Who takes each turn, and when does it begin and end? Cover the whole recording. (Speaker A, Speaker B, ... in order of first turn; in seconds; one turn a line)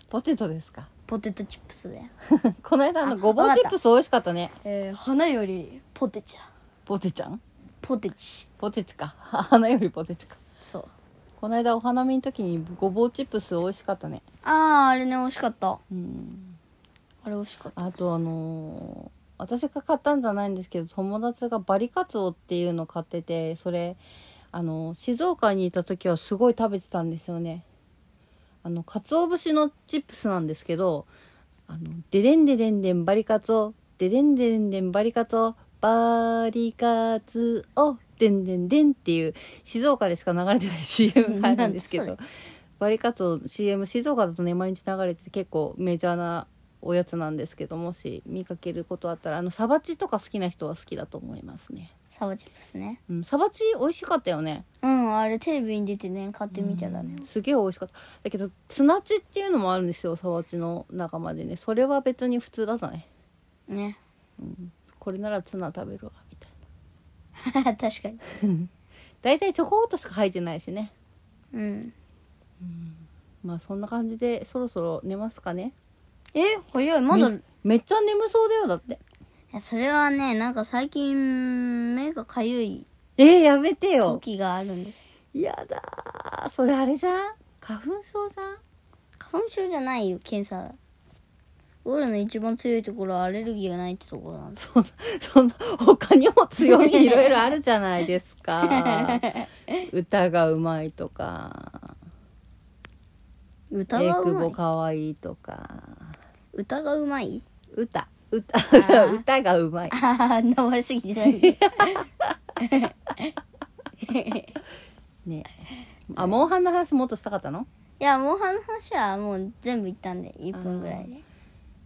Speaker A: 0.1-0.9
Speaker B: 1.1-2.1
Speaker A: 2.3-4.5
Speaker B: 3.0-3.8
Speaker B: 4.6-6.5
Speaker A: 6.9-7.4
Speaker B: 7.8-8.5
Speaker A: 8.6-10.4
Speaker B: 10.6-10.9
Speaker A: 11.4-14.2
Speaker B: 14.4-15.8
Speaker A: 15.9-16.6
Speaker B: 17.2-17.9
Speaker A: 17.8-24.0
Speaker A: 24.5-27.6
Speaker A: 28.6-31.1
Speaker A: 31.7-42.2
Speaker B: 41.3-42.1
Speaker A: 42.8-51.9
Speaker B: 52.1-53.0
Speaker A: 53.1-54.7
Speaker B: 54.8-57.3
Speaker A: 56.5-63.1
Speaker B: 63.7-64.0
Speaker A: 64.4-66.5
Speaker B: 67.4-68.2
Speaker A: 68.4-68.7
Speaker A: 69.2-70.9
Speaker B: 71.5-71.9
Speaker A: 72.6-75.8
Speaker B: 76.3-77.4
Speaker A: 77.1-79.0
Speaker B: 79.5-82.9
Speaker A: 83.2-84.2
Speaker B: 84.0-85.1
Speaker A: 85.3-88.6
Speaker B: 89.2-90.8
Speaker B: 91.8-94.6
Speaker A: 94.6-99.3
Speaker B: 96.6-97.5
Speaker B: 98.6-99.9
Speaker A: 99.8-101.9
Speaker B: 103.7-104.6
Speaker A: 103.9-106.2
Speaker B: 106.5-107.4
Speaker A: 107.7-110.0
Speaker B: 108.7-109.2
Speaker B: 109.9-112.0
Speaker A: 111.3-112.3
Speaker B: 112.6-113.3
Speaker B: 114.0-114.6
Speaker A: 115.2-117.7
Speaker B: 118.0-121.2
Speaker A: 120.5-121.1